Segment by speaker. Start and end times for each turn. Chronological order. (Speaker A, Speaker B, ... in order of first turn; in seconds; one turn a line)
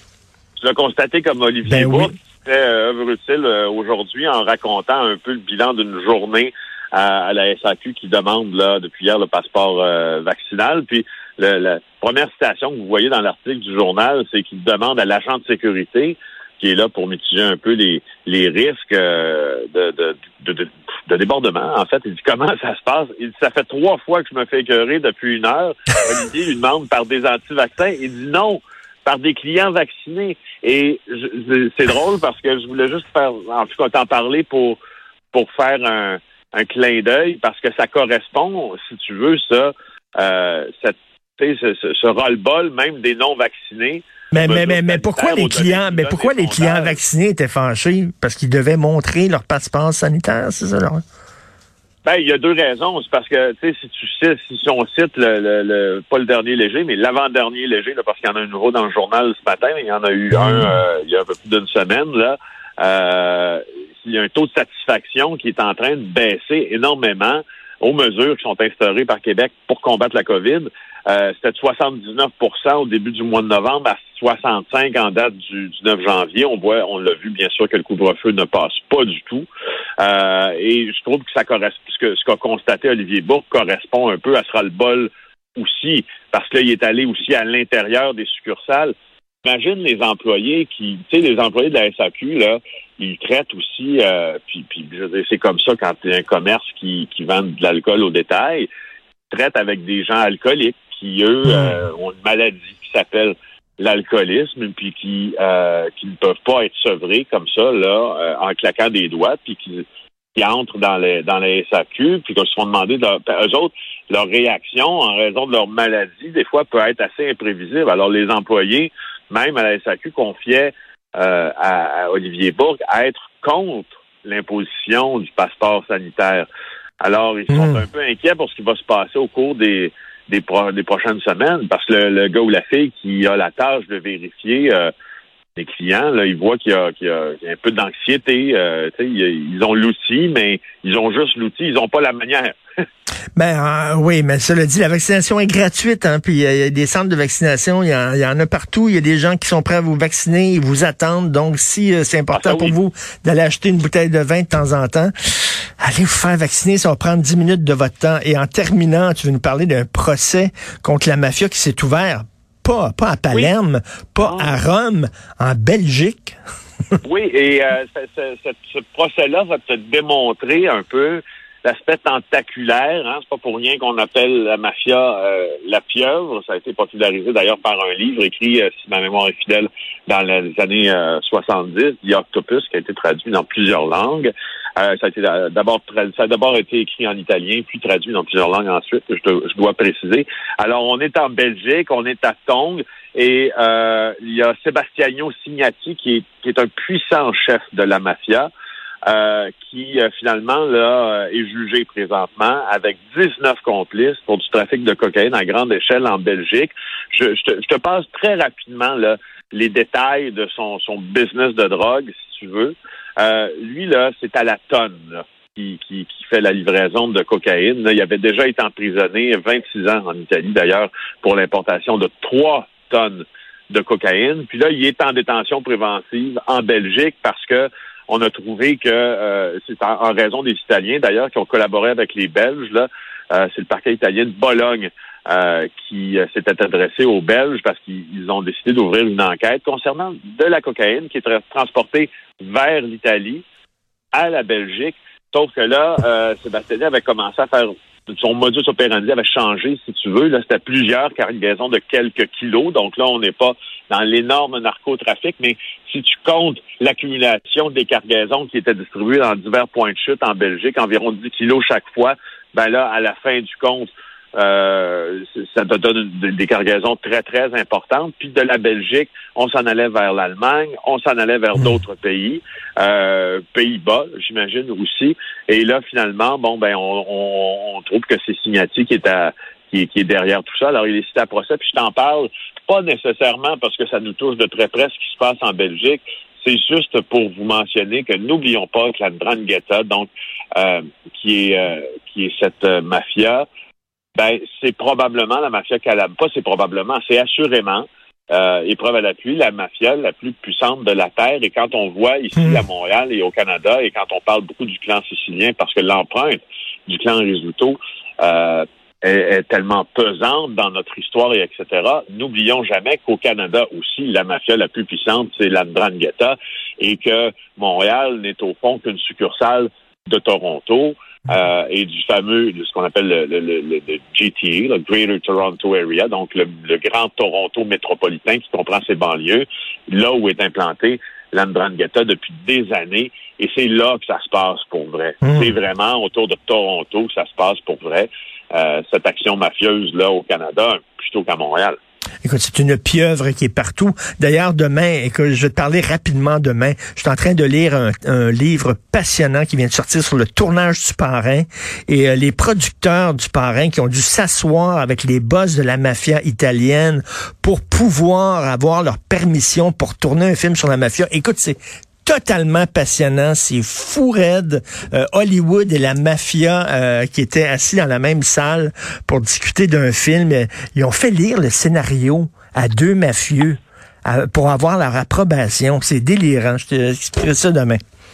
Speaker A: 0.6-34.8
Speaker B: 1.7-2.1
Speaker A: 35.3-47.0
Speaker B: 44.3-51.0
Speaker A: 52.0-79.5
Speaker B: 60.3-60.8
Speaker A: 80.0-98.7
Speaker A: 99.3-126.5
Speaker B: 101.4-101.8
Speaker A: 127.0-134.9
Speaker B: 127.5-127.8
Speaker A: 135.6-142.6
Speaker B: 143.3-166.4
Speaker A: 152.3-152.8
Speaker A: 164.2-164.6
Speaker A: 167.0-198.5
Speaker A: 199.1-243.4
Speaker A: 244.1-293.4
Speaker A: 294.1-341.8
Speaker B: 302.4-302.6
Speaker B: 335.2-335.5
Speaker B: 342.2-377.8